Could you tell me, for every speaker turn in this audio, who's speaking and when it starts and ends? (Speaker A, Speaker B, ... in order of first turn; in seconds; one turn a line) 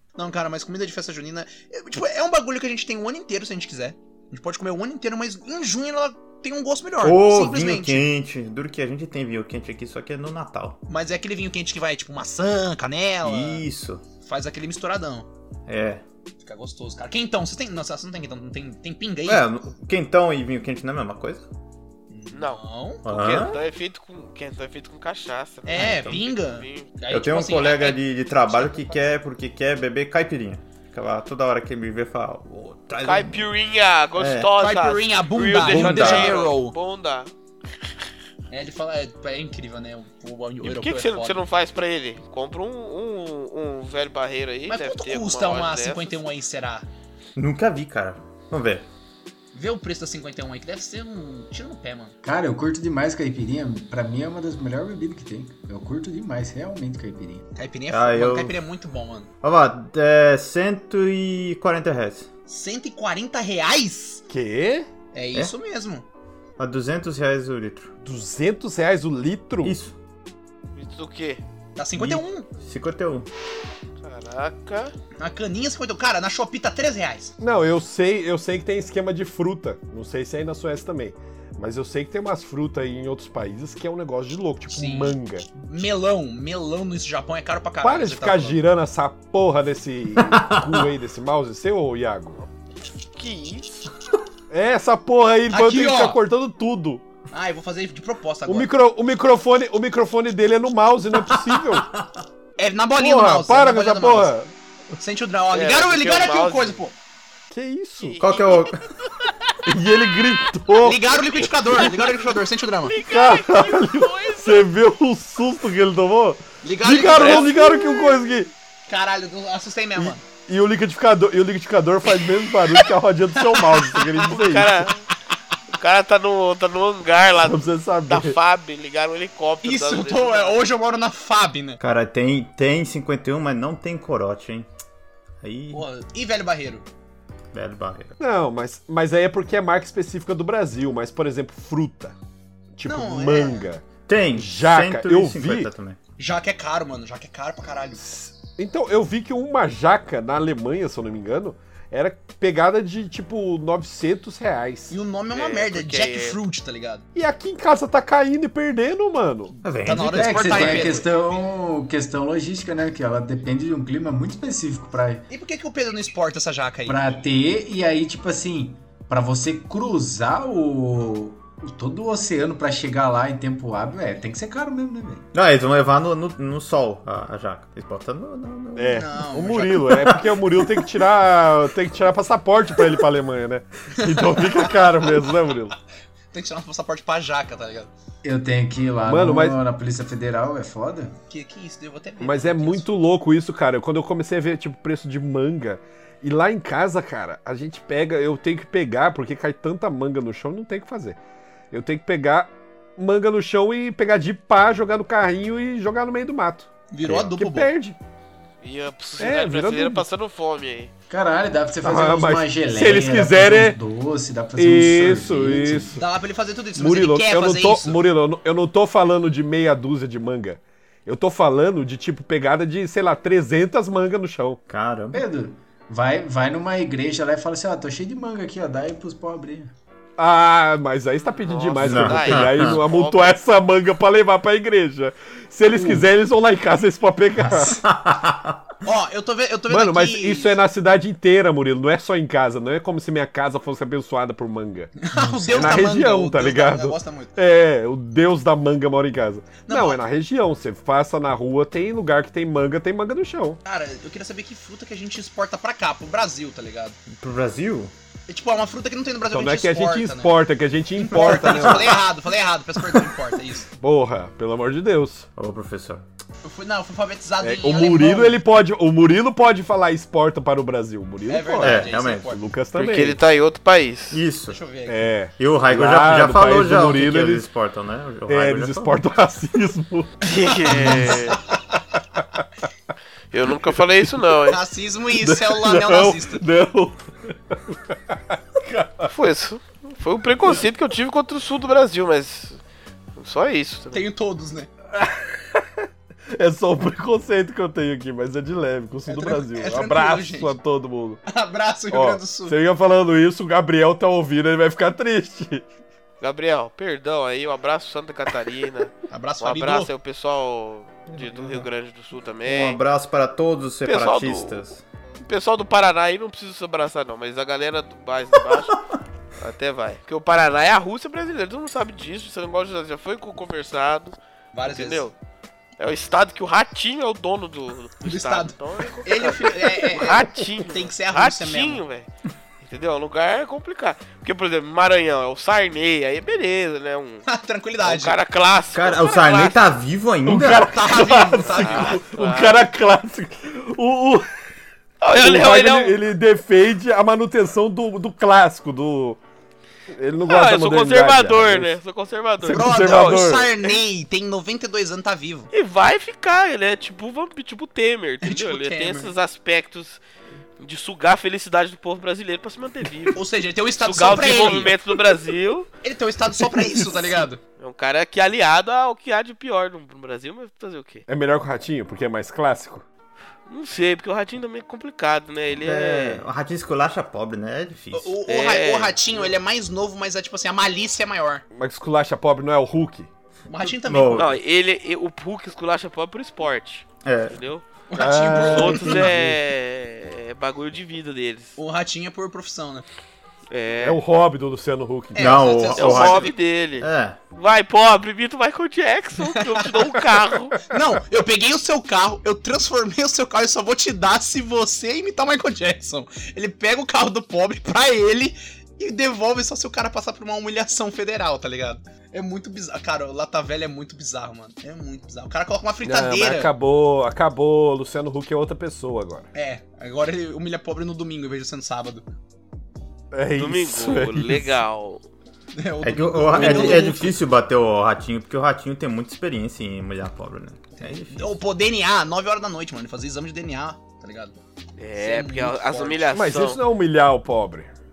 Speaker A: 0.2-8.1
Speaker B: 7.0-10.8
Speaker A: 10.9-13.7
Speaker B: 13.2-14.0
Speaker A: 14.2-15.3
Speaker B: 15.7-16.0
Speaker A: 16.4-19.5
Speaker B: 19.3-21.5
Speaker A: 22.1-23.0
Speaker C: 22.3-26.9
Speaker B: 23.0-23.6
Speaker A: 25.7-29.0
Speaker B: 25.7-26.2
Speaker B: 27.1-33.5
Speaker C: 33.0-37.3
Speaker B: 34.2-34.5
Speaker A: 34.6-36.8
Speaker B: 35.6-36.5
Speaker A: 38.5-41.4
Speaker C: 40.6-46.3
Speaker A: 44.7-46.9
Speaker B: 47.4-48.9
Speaker A: 49.5-52.1
Speaker D: 52.2-57.5
Speaker A: 57.5-59.3
Speaker B: 57.9-58.6
Speaker B: 59.4-62.3
Speaker A: 62.5-64.2
Speaker E: 64.3-64.9
Speaker A: 65.1-66.0
Speaker B: 66.6-67.9
Speaker E: 68.0-69.8
Speaker B: 69.6-70.0
Speaker C: 70.8-71.4
Speaker A: 71.8-72.5
Speaker B: 72.0-73.3
Speaker C: 74.0-74.9
Speaker A: 75.2-77.3
Speaker E: 77.4-85.5
Speaker A: 84.7-88.6
Speaker E: 87.8-92.5
Speaker B: 90.2-90.9
Speaker C: 93.2-93.8
Speaker E: 94.5-97.0
Speaker A: 95.5-96.2
Speaker A: 97.3-98.7
Speaker E: 98.5-101.9
Speaker B: 101.2-102.2
Speaker A: 102.6-104.3
Speaker E: 103.0-104.5
Speaker A: 105.0-107.0
Speaker C: 105.5-106.8
Speaker E: 107.5-108.2
Speaker C: 108.0-109.3
Speaker B: 108.2-108.9
Speaker E: 109.7-112.0
Speaker A: 110.8-113.0
Speaker C: 112.9-114.7
Speaker E: 113.0-118.5
Speaker A: 116.6-117.9
Speaker C: 117.1-117.8
Speaker A: 118.9-120.2
Speaker E: 120.0-124.9
Speaker A: 122.8-124.3
Speaker C: 124.3-125.1
Speaker C: 125.7-130.6
Speaker E: 127.4-128.4
Speaker A: 129.6-131.8
Speaker B: 131.8-134.7
Speaker B: 135.4-135.8
Speaker A: 135.7-136.8
Speaker B: 137.5-138.2
Speaker E: 138.2-142.2
Speaker E: 142.8-145.7
Speaker A: 142.8-143.7
Speaker B: 144.1-146.0
Speaker A: 146.2-148.1
Speaker E: 148.0-154.9
Speaker A: 154.9-157.1
Speaker C: 155.3-156.4
Speaker E: 157.2-159.6
Speaker B: 159.6-160.9
Speaker A: 159.8-161.1
Speaker D: 160.1-165.3
Speaker A: 165.3-167.2
Speaker D: 166.9-175.3
Speaker B: 175.3-179.1
Speaker E: 178.8-185.8
Speaker A: 178.9-180.2
Speaker A: 184.0-185.1
Speaker A: 186.3-187.9
Speaker D: 188.2-191.2
Speaker E: 189.1-189.6
Speaker A: 191.3-192.9
Speaker E: 192.2-201.2
Speaker E: 201.7-208.0
Speaker A: 206.9-207.7
Speaker C: 208.6-210.9
Speaker E: 209.2-210.1
Speaker D: 211.1-216.0
Speaker E: 211.8-213.8
Speaker E: 214.6-216.0
Speaker A: 216.0-218.0
Speaker E: 216.8-224.6
Speaker B: 224.7-225.2
Speaker D: 225.1-229.7
Speaker E: 230.2-237.8
Speaker C: 231.2-233.4
Speaker B: 231.8-232.8
Speaker D: 235.7-236.1
Speaker D: 237.4-237.8
Speaker B: 237.7-238.7
Speaker A: 238.8-240.6
Speaker E: 239.7-244.9
Speaker A: 245.0-247.3
Speaker D: 245.2-245.8
Speaker E: 245.5-253.6
Speaker A: 249.6-250.0
Speaker A: 253.7-257.0
Speaker B: 257.1-257.9
Speaker A: 258.3-260.4
Speaker E: 259.3-262.0
Speaker A: 261.0-263.7
Speaker B: 261.1-262.0
Speaker E: 263.8-265.3
Speaker B: 265.4-266.0
Speaker A: 266.4-268.4
Speaker E: 267.4-273.2
Speaker A: 271.3-272.4
Speaker B: 271.6-272.4
Speaker C: 272.7-274.2
Speaker B: 274.1-274.6
Speaker A: 274.5-275.1
Speaker E: 274.9-277.5
Speaker B: 275.4-279.0
Speaker E: 278.3-281.2
Speaker C: 280.2-281.4
Speaker A: 280.7-281.4
Speaker C: 283.3-284.6
Speaker A: 284.5-286.4
Speaker E: 285.2-289.1
Speaker C: 289.1-292.6
Speaker C: 293.2-294.1
Speaker A: 293.9-294.7
Speaker E: 294.9-301.2
Speaker A: 299.1-300.6
Speaker A: 301.3-302.6
Speaker E: 301.9-305.6
Speaker C: 306.2-312.8
Speaker A: 309.1-309.9
Speaker B: 311.1-311.7
Speaker B: 312.4-314.8
Speaker C: 313.9-314.6
Speaker C: 315.2-318.8
Speaker C: 319.4-325.1
Speaker A: 324.5-325.1
Speaker C: 325.8-332.1
Speaker A: 328.0-331.8
Speaker C: 332.6-337.2
Speaker A: 337.3-338.2
Speaker C: 337.8-339.6
Speaker B: 338.7-340.8
Speaker E: 340.2-344.3
Speaker A: 340.6-342.0
Speaker C: 341.4-342.6
Speaker C: 345.0-346.0
Speaker E: 345.1-349.2
Speaker E: 349.9-351.8
Speaker C: 350.2-353.8
Speaker E: 352.4-353.5
Speaker A: 352.5-355.5
Speaker C: 355.5-360.0
Speaker A: 358.2-359.1
Speaker C: 360.6-363.2
Speaker A: 363.1-364.8
Speaker C: 363.8-365.7
Speaker A: 365.8-367.4
Speaker C: 367.6-371.1
Speaker E: 371.1-372.9
Speaker C: 373.5-376.2
Speaker B: 375.6-378.2
Speaker A: 377.9-381.4
Speaker C: 378.3-379.3
Speaker E: 381.6-383.1
Speaker A: 383.5-384.3
Speaker B: 383.8-384.4
Speaker C: 384.1-387.6
Speaker B: 387.0-387.4
Speaker A: 387.9-389.1
Speaker E: 388.0-389.4
Speaker C: 388.5-391.6
Speaker A: 391.6-392.9
Speaker C: 393.5-394.0
Speaker E: 393.8-395.5
Speaker A: 395.1-396.3
Speaker B: 395.2-397.2
Speaker C: 395.7-400.6
Speaker A: 399.2-399.7
Speaker A: 400.7-416.5
Speaker E: 415.8-419.3
Speaker A: 419.3-422.1
Speaker E: 423.1-424.6
Speaker C: 423.4-425.0
Speaker A: 425.6-427.2
Speaker B: 425.8-431.4
Speaker E: 426.4-426.8
Speaker C: 426.5-426.8
Speaker A: 430.8-434.4
Speaker C: 434.8-436.6
Speaker A: 435.0-436.1
Speaker E: 436.1-437.7